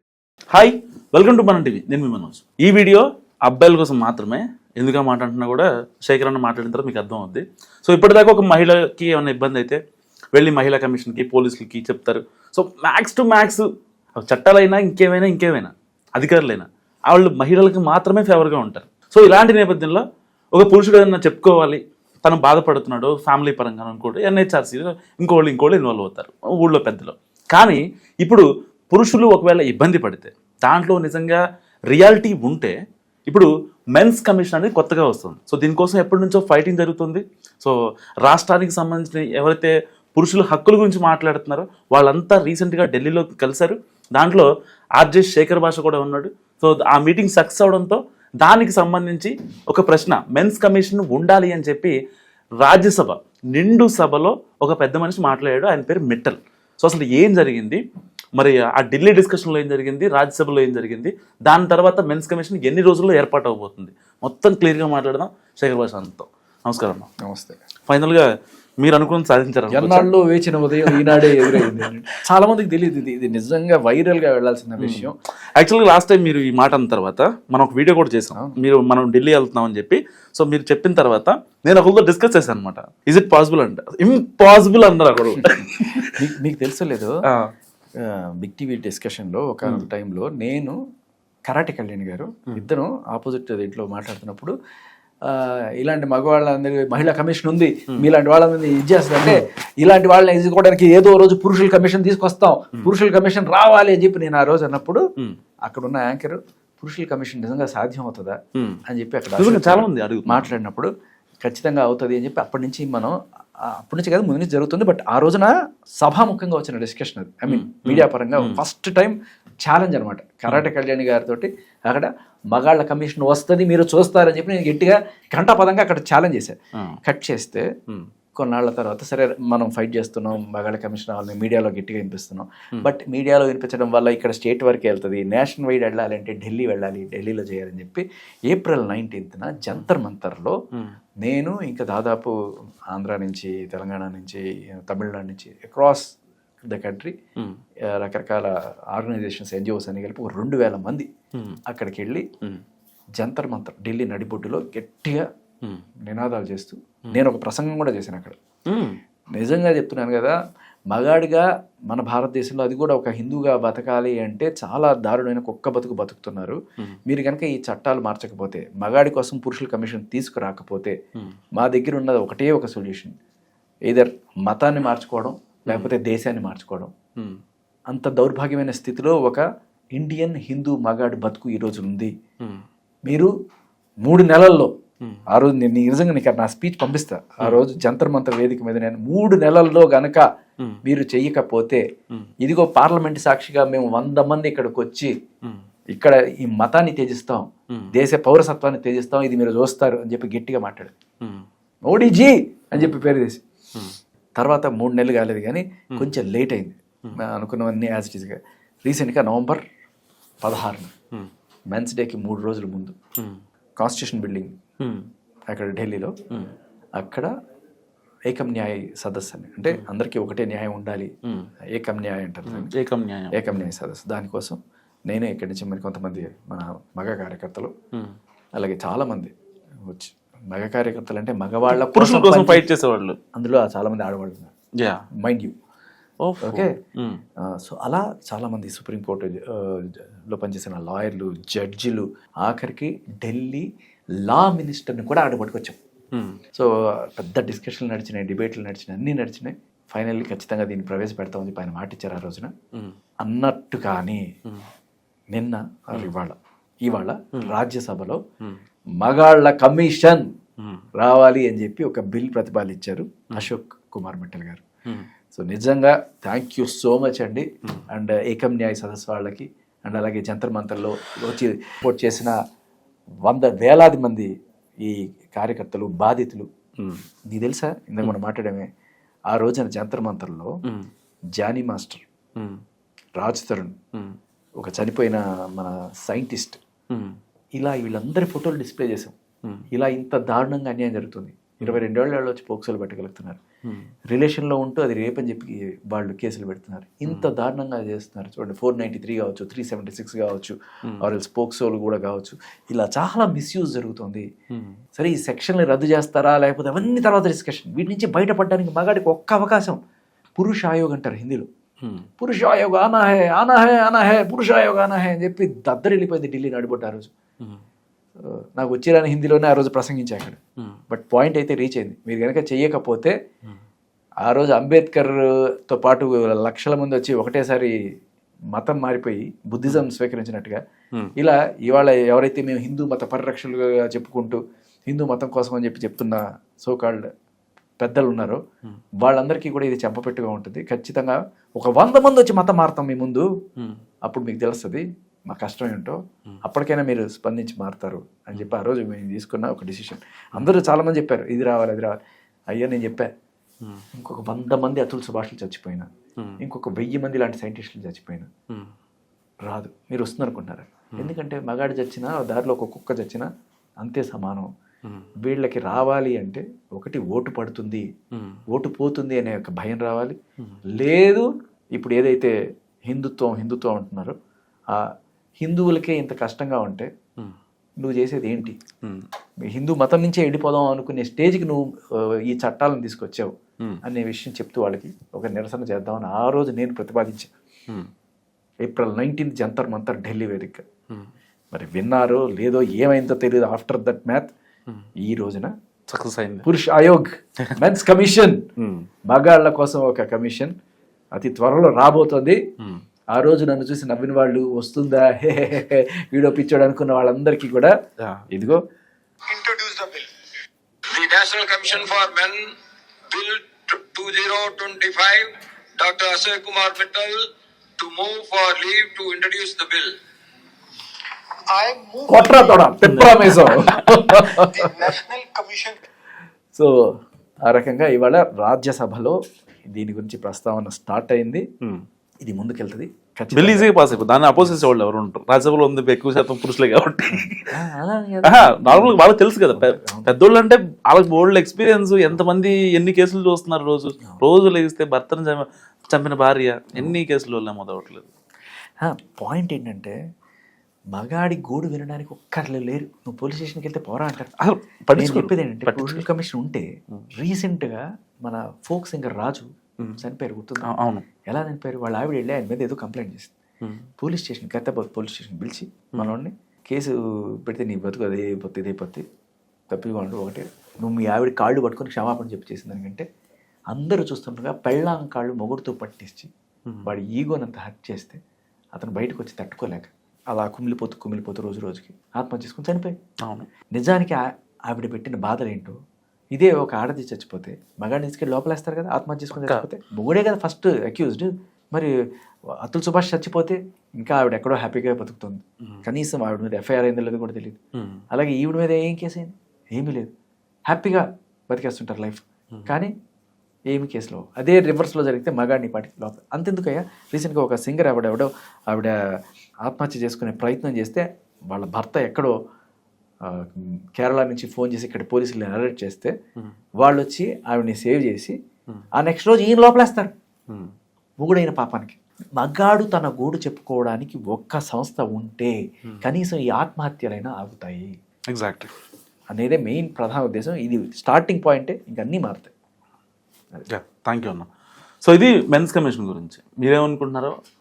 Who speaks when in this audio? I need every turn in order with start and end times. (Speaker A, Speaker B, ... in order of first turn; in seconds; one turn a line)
Speaker A: 0.5-9.8
Speaker A: 10.3-13.7
Speaker A: 14.2-20.0
Speaker A: 20.5-32.8
Speaker A: 33.3-52.0
Speaker A: 52.6-57.8
Speaker A: 58.4-67.1
Speaker B: 67.2-67.6
Speaker A: 67.9-68.3
Speaker A: 68.8-70.1
Speaker B: 69.7-75.2
Speaker A: 70.8-71.8
Speaker A: 74.8-86.2
Speaker B: 86.1-87.2
Speaker B: 88.0-90.7
Speaker B: 91.5-94.5
Speaker B: 95.3-105.0
Speaker B: 105.7-110.9
Speaker A: 109.4-110.5
Speaker B: 111.4-113.1
Speaker B: 113.8-115.5
Speaker B: 116.0-127.7
Speaker A: 117.5-118.6
Speaker B: 128.4-140.6
Speaker B: 141.2-142.3
Speaker B: 142.9-146.0
Speaker B: 146.7-147.1
Speaker B: 147.9-151.1
Speaker B: 151.7-152.2
Speaker B: 153.2-155.2
Speaker B: 156.1-158.4
Speaker A: 158.7-159.0
Speaker B: 159.4-160.3
Speaker B: 160.9-170.9
Speaker B: 171.6-173.1
Speaker B: 173.9-176.9
Speaker A: 175.7-175.9
Speaker B: 177.9-179.4
Speaker B: 180.0-182.1
Speaker B: 184.0-184.7
Speaker B: 185.3-190.2
Speaker B: 190.8-191.8
Speaker B: 192.4-195.1
Speaker B: 195.9-200.9
Speaker B: 201.9-203.4
Speaker B: 204.4-209.6
Speaker B: 210.4-210.9
Speaker B: 211.7-212.9
Speaker B: 213.8-214.5
Speaker A: 214.8-215.1
Speaker B: 215.5-216.2
Speaker B: 217.0-217.3
Speaker B: 218.3-221.1
Speaker B: 221.8-222.7
Speaker A: 222.5-223.3
Speaker B: 223.3-224.6
Speaker B: 225.1-227.7
Speaker B: 228.6-229.3
Speaker B: 229.9-232.7
Speaker A: 231.7-233.2
Speaker B: 233.3-234.5
Speaker B: 235.2-235.5
Speaker A: 236.2-237.2
Speaker B: 236.4-236.7
Speaker B: 237.5-243.7
Speaker B: 244.3-245.8
Speaker A: 246.1-246.4
Speaker B: 246.5-252.5
Speaker B: 253.2-254.2
Speaker B: 255.3-258.2
Speaker B: 259.0-260.2
Speaker B: 261.0-264.6
Speaker B: 265.3-272.3
Speaker B: 273.2-274.3
Speaker B: 274.8-276.5
Speaker A: 276.8-277.0
Speaker B: 277.3-278.7
Speaker B: 279.3-280.5
Speaker B: 281.4-282.0
Speaker B: 283.2-283.8
Speaker B: 284.6-286.6
Speaker A: 286.9-287.2
Speaker B: 287.6-289.1
Speaker B: 289.7-293.4
Speaker B: 294.1-304.2
Speaker B: 305.0-309.8
Speaker B: 310.4-311.5
Speaker B: 312.2-317.1
Speaker B: 318.6-320.4
Speaker B: 320.9-323.1
Speaker B: 324.3-325.1
Speaker B: 325.7-327.7
Speaker B: 328.6-330.6
Speaker B: 331.2-337.1
Speaker B: 337.8-338.4
Speaker B: 339.0-343.2
Speaker B: 344.1-352.0
Speaker B: 352.5-353.1
Speaker B: 354.0-355.9
Speaker B: 356.4-358.3
Speaker B: 359.5-363.3
Speaker B: 363.8-364.5
Speaker B: 365.2-367.8
Speaker A: 368.1-368.4
Speaker B: 368.5-370.2
Speaker B: 370.8-372.3
Speaker B: 372.9-374.1
Speaker B: 375.4-376.9
Speaker B: 377.8-378.6
Speaker B: 379.5-381.6
Speaker B: 382.3-383.3
Speaker B: 383.8-387.3
Speaker B: 388.6-390.6
Speaker B: 391.5-394.3
Speaker B: 395.1-395.5
Speaker A: 395.9-396.4
Speaker B: 396.4-398.4
Speaker A: 398.6-398.9
Speaker B: 399.1-400.5
Speaker B: 401.1-402.4
Speaker B: 403.1-407.7
Speaker B: 408.3-408.6
Speaker C: 409.3-410.1
Speaker C: 410.9-412.5
Speaker C: 413.1-417.3
Speaker C: 417.8-419.9
Speaker C: 421.5-422.6
Speaker B: 422.1-424.9
Speaker A: 422.8-424.0
Speaker C: 424.6-425.8
Speaker B: 427.5-429.2
Speaker B: 429.8-431.4
Speaker B: 432.2-433.8
Speaker A: 433.4-437.5
Speaker B: 437.1-440.1
Speaker A: 438.3-448.1
Speaker B: 448.8-449.9
Speaker B: 450.9-454.3
Speaker A: 454.4-456.0
Speaker B: 455.0-456.7
Speaker B: 457.2-460.7
Speaker A: 460.6-461.1
Speaker B: 461.3-463.3
Speaker B: 464.0-469.0
Speaker B: 469.7-473.1
Speaker B: 473.7-476.3
Speaker B: 476.9-478.2
Speaker B: 478.8-483.0
Speaker B: 483.8-485.8
Speaker B: 486.4-491.9
Speaker A: 489.4-489.6
Speaker B: 492.6-497.6
Speaker A: 497.8-498.0
Speaker B: 498.1-500.1
Speaker B: 500.7-502.9
Speaker B: 503.7-508.9
Speaker B: 509.6-512.3
Speaker B: 513.4-516.1
Speaker B: 516.8-518.3
Speaker B: 519.0-520.1
Speaker B: 521.2-527.9
Speaker A: 528.3-528.7
Speaker B: 529.3-532.5
Speaker A: 533.7-534.5
Speaker A: 535.0-537.4